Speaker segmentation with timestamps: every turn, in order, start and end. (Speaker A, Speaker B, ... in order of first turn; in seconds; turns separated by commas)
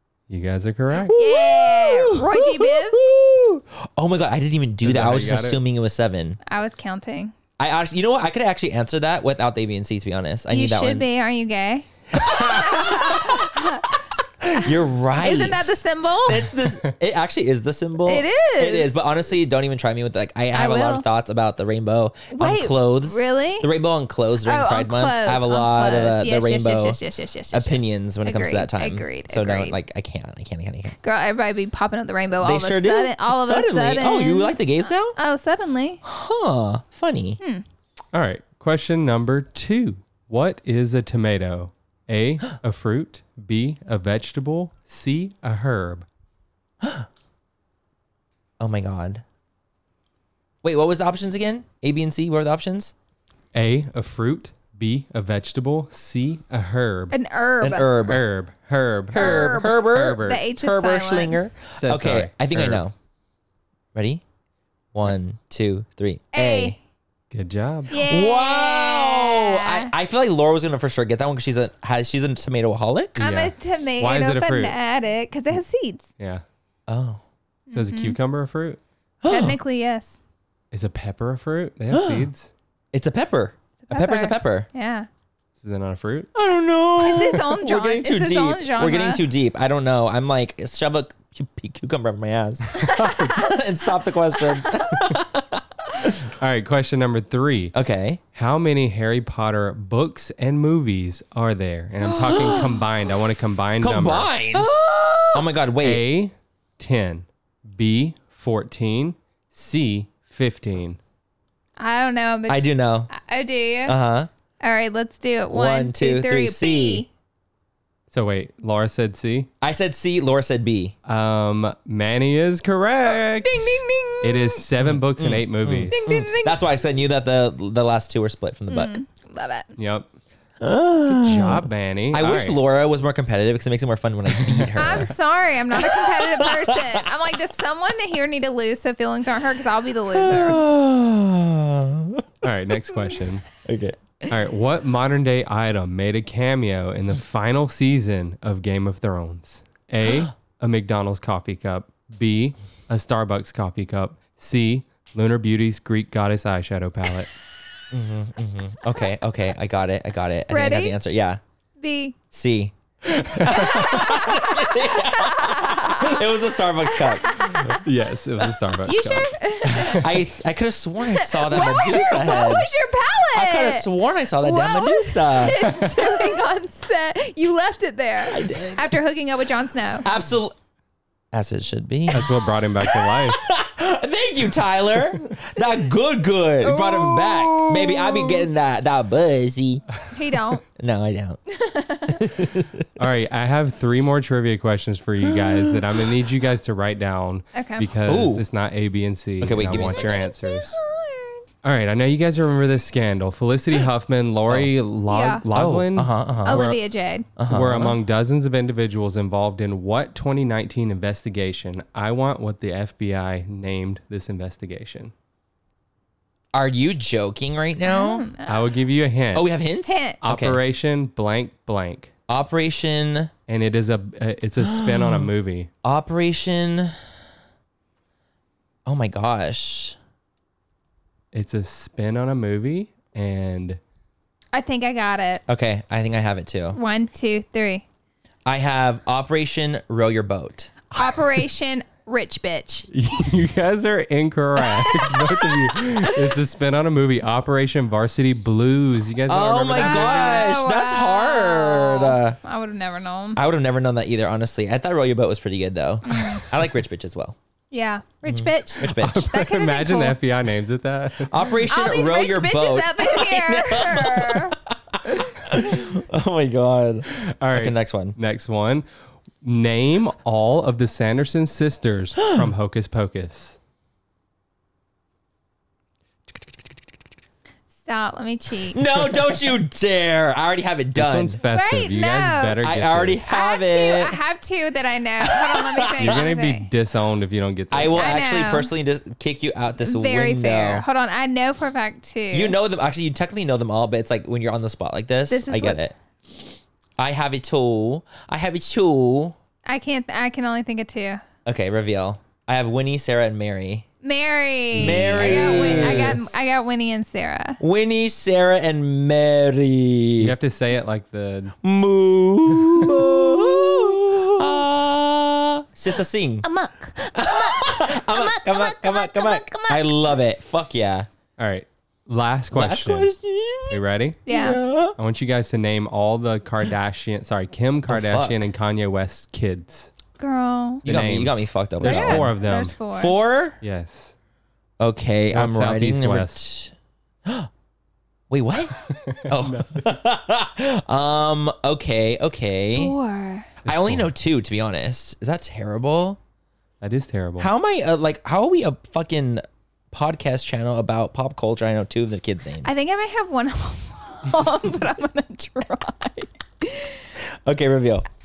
Speaker A: 0.3-1.1, Speaker B: 0.9-6.4, Speaker C: 1.2-3.0, Speaker A: 4.8-5.6, Speaker C: 6.5-7.3, Speaker B: 7.6-11.1, Speaker C: 10.5-16.5, Speaker B: 12.1-27.0, Speaker C: 18.1-18.9, Speaker C: 20.5-21.0, Speaker C: 22.3-23.7, Speaker C: 24.4-29.7, Speaker B: 27.5-30.9, Speaker C: 31.0-36.0, Speaker B: 32.4-35.2, Speaker B: 36.0-37.4, Speaker A: 38.1-46.0, Speaker B: 46.8-47.1, Speaker B: 48.6-49.2, Speaker B: 50.6-52.9, Speaker A: 53.5-57.1, Speaker C: 57.1-57.9, Speaker B: 57.6-58.2, Speaker A: 58.0-60.4, Speaker B: 59.1-62.9, Speaker C: 59.1-61.4, Speaker A: 61.8-62.8, Speaker B: 63.9-64.2, Speaker B: 64.9-66.8, Speaker C: 66.3-66.8, Speaker A: 67.3-68.0, Speaker C: 67.9-69.9, Speaker B: 68.0-73.2, Speaker C: 73.2-76.1, Speaker A: 73.2-74.8, Speaker A: 76.2-76.4, Speaker B: 76.9-77.2, Speaker C: 77.7-78.2, Speaker A: 77.7-78.8, Speaker B: 79.2-79.6, Speaker C: 79.3-80.2, Speaker A: 80.7-82.5, Speaker B: 81.9-82.3, Speaker B: 82.9-84.7, Speaker C: 83.8-85.1, Speaker A: 85.6-86.3, Speaker B: 86.3-96.2, Speaker C: 87.0-89.2, Speaker C: 92.8-93.4, Speaker A: 92.8-93.4, Speaker C: 94.3-94.9, Speaker A: 96.3-97.7, Speaker B: 97.7-98.2, Speaker A: 98.3-104.3, Speaker B: 102.1-102.7, Speaker B: 103.8-106.0, Speaker C: 104.5-105.4, Speaker A: 105.8-111.0, Speaker C: 111.8-113.9, Speaker B: 112.5-113.1, Speaker B: 113.8-114.3, Speaker C: 114.6-117.1, Speaker B: 115.5-117.0, Speaker A: 118.1-119.5, Speaker B: 119.6-120.9, Speaker A: 121.0-126.2, Speaker C: 123.4-124.6, Speaker B: 124.8-128.9, Speaker C: 125.9-126.6, Speaker C: 128.7-129.7, Speaker A: 129.8-130.1, Speaker B: 130.6-135.1, Speaker A: 131.1-132.6, Speaker A: 134.3-135.1, Speaker C: 134.8-140.6, Speaker B: 135.7-136.9, Speaker B: 140.1-142.3, Speaker A: 142.4-143.4, Speaker B: 143.6-144.3, Speaker A: 144.3-157.3, Speaker B: 157.9-161.4, Speaker C: 160.5-160.9, Speaker C: 161.8-162.2, Speaker B: 162.3-162.7, Speaker A: 163.1-163.8, Speaker B: 163.4-167.8, Speaker C: 163.4-166.2, Speaker C: 166.9-167.8, Speaker A: 167.7-170.2, Speaker C: 168.8-170.0, Speaker B: 169.8-172.7, Speaker C: 171.0-173.9, Speaker B: 173.3-175.6, Speaker C: 174.4-180.1, Speaker A: 175.5-176.1, Speaker B: 178.3-178.9, Speaker B: 180.0-180.5, Speaker B: 181.3-189.9, Speaker A: 182.1-183.4, Speaker C: 186.6-188.4, Speaker C: 190.1-190.6, Speaker B: 190.8-191.4, Speaker C: 191.5-192.2, Speaker B: 192.1-192.9, Speaker A: 193.0-200.8, Speaker C: 197.5-197.9, Speaker B: 198.1-198.4, Speaker B: 199.4-200.3, Speaker C: 199.7-201.4, Speaker A: 201.6-206.8, Speaker C: 205.1-205.4, Speaker B: 205.5-206.8, Speaker C: 206.4-207.3, Speaker B: 207.4-207.9, Speaker A: 207.5-215.1, Speaker B: 216.5-218.3, Speaker C: 217.8-218.7, Speaker A: 218.4-219.5, Speaker B: 219.3-220.6, Speaker C: 219.8-220.2, Speaker A: 220.2-222.1, Speaker B: 222.3-223.3, Speaker A: 223.5-225.7, Speaker B: 224.6-225.3, Speaker B: 225.8-226.9, Speaker B: 228.8-229.9, Speaker A: 231.3-233.8, Speaker C: 234.5-235.4, Speaker B: 235.5-236.8, Speaker C: 236.7-237.8, Speaker B: 238.4-240.9, Speaker C: 240.9-242.9, Speaker A: 242.9-250.6, Speaker C: 244.8-245.1, Speaker B: 245.2-245.5, Speaker B: 249.3-252.4, Speaker C: 249.7-253.4, Speaker B: 253.3-257.4, Speaker C: 256.0-256.4, Speaker C: 257.7-260.2, Speaker B: 258.2-259.3, Speaker A: 258.9-261.5, Speaker B: 261.2-268.1, Speaker C: 261.7-264.6, Speaker A: 267.2-268.9, Speaker A: 269.4-273.6, Speaker B: 272.2-272.5, Speaker C: 277.8-278.8, Speaker B: 278.7-281.4, Speaker A: 280.9-283.2, Speaker C: 281.4-282.6, Speaker B: 282.6-284.2, Speaker C: 283.2-286.6, Speaker B: 285.3-286.2, Speaker A: 286.0-288.2, Speaker B: 287.7-290.8, Speaker C: 287.9-288.7, Speaker C: 289.8-292.6, Speaker B: 292.3-295.9, Speaker C: 295.3-295.9, Speaker B: 297.0-299.4, Speaker C: 299.6-301.2, Speaker B: 301.4-303.9, Speaker C: 304.0-307.6, Speaker A: 304.7-306.5, Speaker B: 304.8-306.2, Speaker B: 307.6-310.3, Speaker A: 310.2-311.6, Speaker B: 311.6-316.4, Speaker C: 312.9-314.1, Speaker C: 316.4-319.9, Speaker B: 317.1-321.1, Speaker A: 321.4-323.1, Speaker B: 322.5-324.9, Speaker A: 323.7-324.3, Speaker C: 324.3-324.6, Speaker A: 324.9-329.9, Speaker B: 327.9-328.5, Speaker C: 330.2-330.9, Speaker B: 330.8-332.3, Speaker A: 330.8-332.8, Speaker C: 331.8-333.1, Speaker B: 332.9-333.6, Speaker A: 333.6-334.1, Speaker B: 334.8-336.7, Speaker A: 335.3-336.4, Speaker B: 338.3-342.9, Speaker A: 339.1-339.9, Speaker C: 342.8-343.5, Speaker A: 343.6-344.1, Speaker B: 343.6-346.2, Speaker A: 346.8-347.5, Speaker B: 347.4-352.8, Speaker C: 352.6-357.1, Speaker B: 357.4-358.1